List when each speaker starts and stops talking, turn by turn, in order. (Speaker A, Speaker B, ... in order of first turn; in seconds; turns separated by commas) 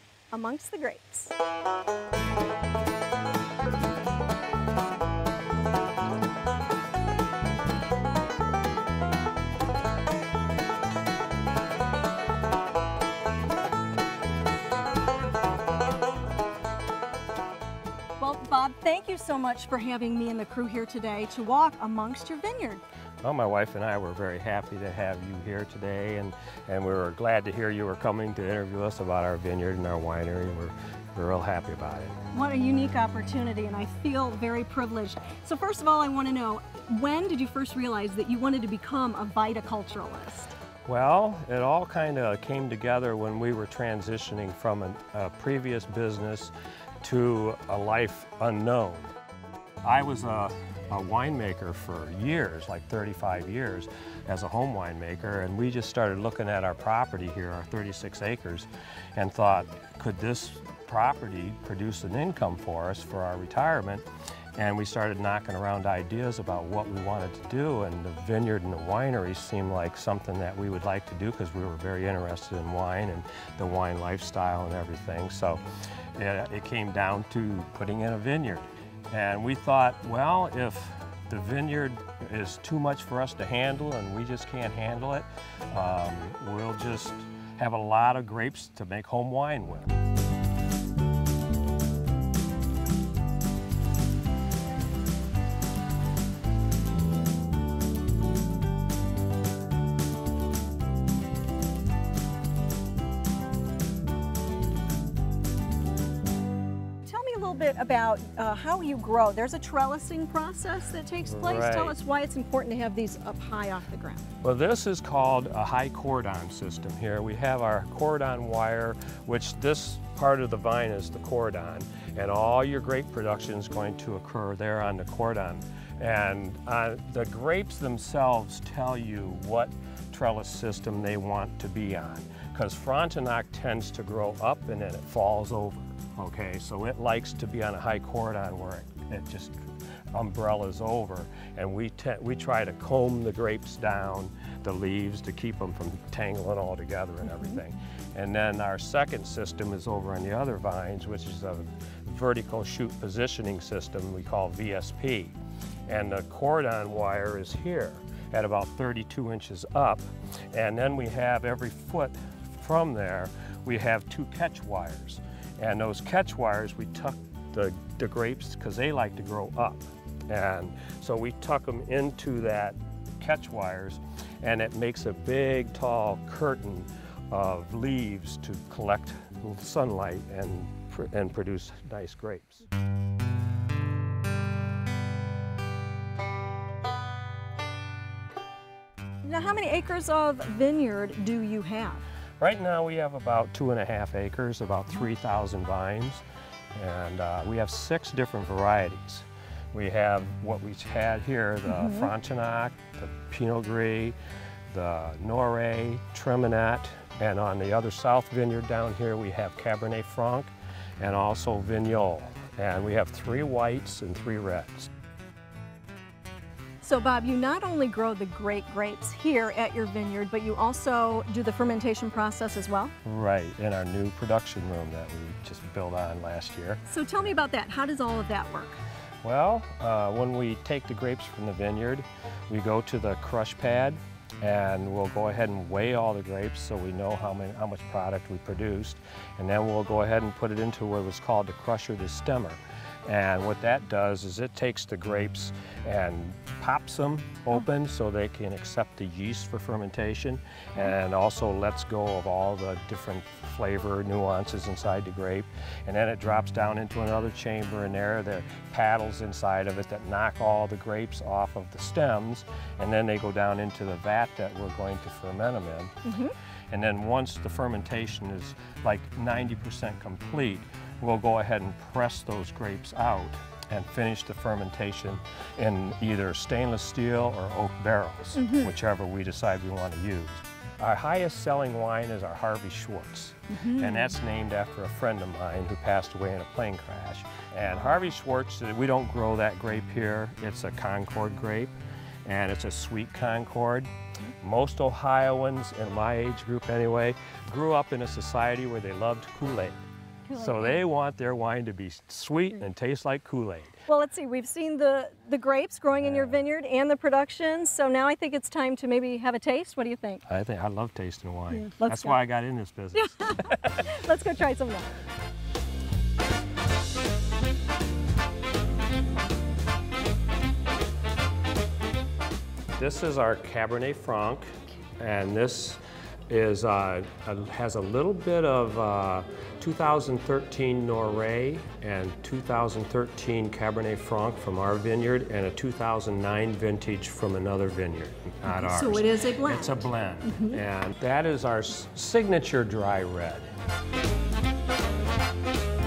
Speaker A: 0.3-1.3, Speaker A: 18.2-22.8, Speaker B: 23.2-32.2, Speaker A: 32.3-40.5, Speaker B: 40.9-49.1, Speaker B: 49.8-64.0, Speaker B: 64.6-75.6, Speaker B: 76.2-89.9, Speaker A: 107.0-114.3, Speaker B: 111.2-112.0, Speaker B: 114.4-155.4, Speaker B: 155.9-182.7, Speaker A: 189.2-192.0, Speaker B: 192.4-204.2, Speaker A: 201.7-202.1, Speaker B: 204.7-214.9, Speaker A: 216.8-222.9, Speaker B: 223.0-226.8, Speaker A: 226.9-228.8, Speaker B: 229.2-265.9, Speaker A: 266.1-266.3, Speaker B: 266.7-291.7, Speaker A: 278.4-278.7, Speaker A: 283.5-284.1, Speaker B: 292.2-293.9, Speaker B: 294.4-299.8, Speaker A: 300.3-300.8, Speaker B: 300.4-303.8, Speaker A: 303.9-310.2, Speaker B: 306.0-306.4, Speaker B: 310.3-313.9, Speaker A: 311.5-312.2, Speaker A: 312.9-314.9, Speaker B: 322.8-324.5, Speaker B: 325.0-343.5, Speaker A: 338.5-340.6